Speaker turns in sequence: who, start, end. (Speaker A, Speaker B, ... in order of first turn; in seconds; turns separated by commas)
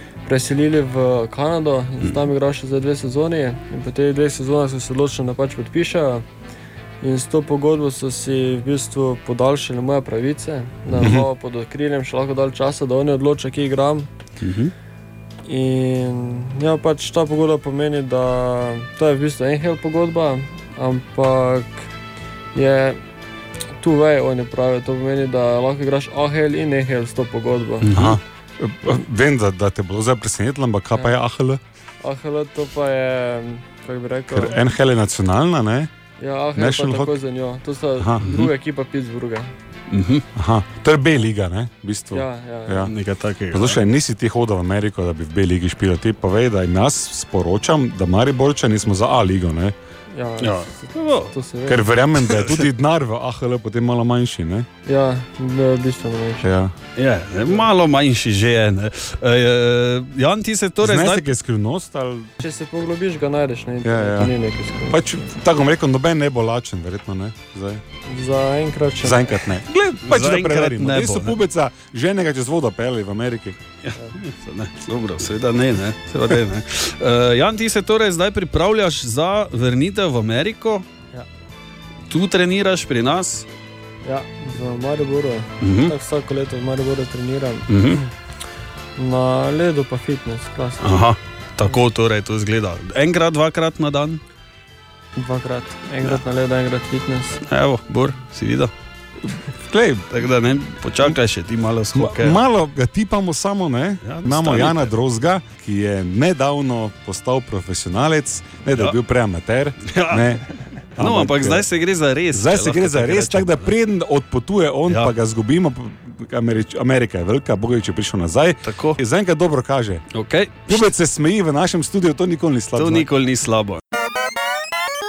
Speaker A: 0.2-6.2, Speaker A: 7.0-14.1, Speaker B: 11.0-11.3, Speaker C: 14.4-14.7, Speaker A: 15.5-21.9, Speaker A: 22.5-23.0, Speaker A: 23.8-27.9, Speaker C: 27.8-28.2, Speaker B: 27.9-31.6, Speaker A: 32.0-34.6, Speaker B: 34.3-35.9, Speaker A: 36.2-39.5, Speaker B: 36.5-37.1, Speaker B: 38.0-38.3, Speaker C: 39.9-40.3, Speaker B: 40.4-42.9, Speaker A: 42.1-42.9, Speaker C: 42.9-43.8, Speaker B: 43.5-49.7, Speaker A: 50.1-51.9, Speaker C: 50.4-51.3, Speaker B: 51.7-54.7, Speaker C: 52.2-52.7, Speaker A: 54.9-56.5, Speaker B: 56.4-56.7, Speaker C: 57.0-61.2, Speaker B: 60.8-62.3, Speaker A: 62.4-65.1, Speaker B: 63.8-64.3, Speaker B: 64.9-67.8, Speaker A: 68.1-69.3, Speaker B: 69.0-73.6, Speaker C: 70.0-71.4, Speaker C: 73.8-80.8, Speaker C: 82.1-83.5, Speaker A: 84.0-88.1, Speaker C: 85.6-85.9, Speaker C: 87.7-88.0, Speaker A: 89.0-90.9, Speaker C: 90.8-94.2, Speaker A: 95.2-97.4, Speaker C: 97.4-98.7, Speaker B: 99.6-100.1, Speaker C: 100.1-102.4, Speaker B: 101.9-111.7, Speaker C: 104.0-104.9, Speaker C: 109.8-110.4, Speaker C: 111.0-113.7, Speaker B: 112.3-120.0, Speaker C: 114.9-115.1, Speaker C: 118.6-119.0, Speaker C: 120.1-120.9, Speaker B: 120.7-123.1, Speaker C: 122.8-123.8